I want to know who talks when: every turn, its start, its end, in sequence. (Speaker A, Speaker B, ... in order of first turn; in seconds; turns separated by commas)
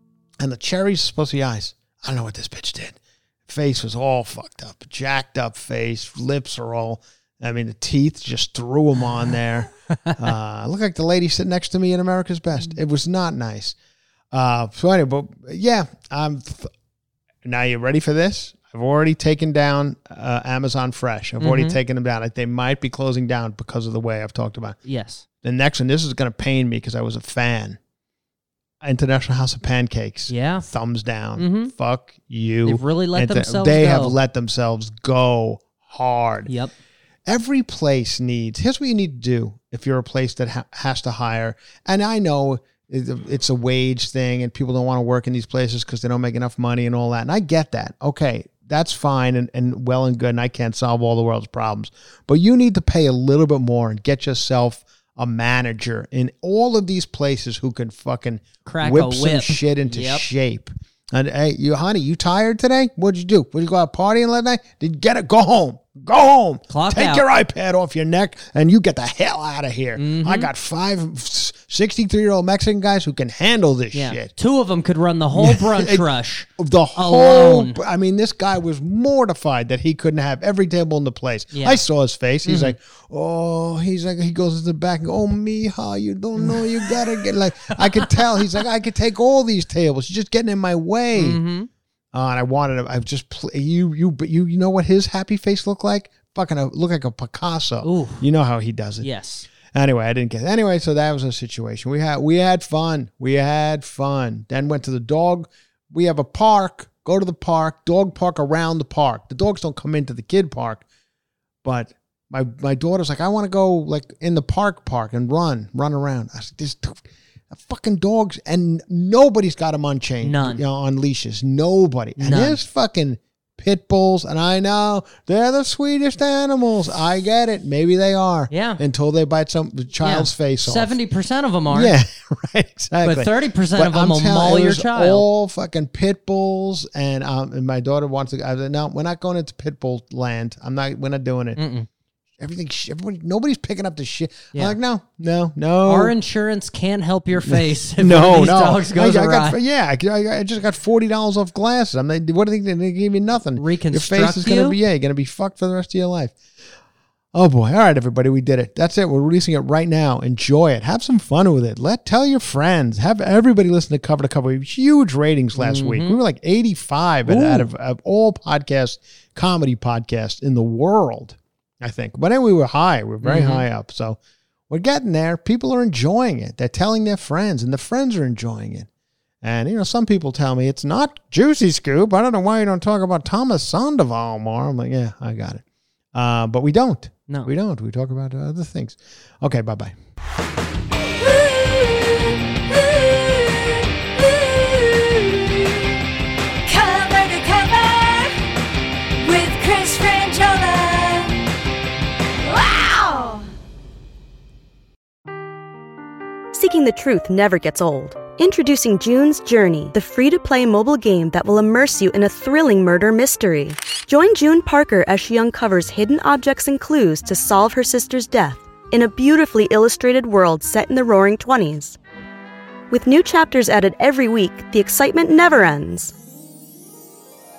Speaker A: 0.4-13.8, Speaker A: 14.3-16.7, Speaker A: 17.4-24.8, Speaker B: 21.4-21.8, Speaker B: 24.9-25.2, Speaker A: 25.4-27.8, Speaker A: 28.8-36.5, Speaker B: 30.3-30.6, Speaker B: 31.4-31.7, Speaker B: 32.6-34.2, Speaker B: 36.5-36.7, Speaker A: 37.3-74.3, Speaker B: 58.6-60.3, Speaker B: 66.7-67.3, Speaker B: 70.0-70.5, Speaker B: 73.9-77.8, Speaker A: 75.3-76.0, Speaker A: 76.6-91.4, Speaker B: 81.5-81.8, Speaker B: 82.5-82.7, Speaker B: 86.4-86.9, Speaker B: 87.7-88.5, Speaker B: 91.2-91.7, Speaker A: 92.1-110.8, Speaker B: 97.8-98.2, Speaker B: 99.0-99.5, Speaker A: 111.6-130.9, Speaker B: 120.2-120.6, Speaker B: 122.2-122.6, Speaker B: 128.5-128.8, Speaker B: 130.0-132.0, Speaker A: 131.7-141.6, Speaker B: 133.0-135.2, Speaker B: 141.6-141.9, Speaker A: 142.4-146.2, Speaker B: 145.8-149.6, Speaker A: 147.4-156.4, Speaker B: 153.6-154.8, Speaker A: 157.3-178.9, Speaker B: 165.6-166.2, Speaker B: 167.3-167.7, Speaker B: 173.2-173.7, Speaker A: 179.4-185.6, Speaker A: 186.1-190.0, Speaker B: 191.0-195.9, Speaker B: 196.6-198.5, Speaker B: 199.2-201.5, Speaker B: 202.5-203.4, Speaker C: 206.5-222.0, Speaker C: 222.9-226.1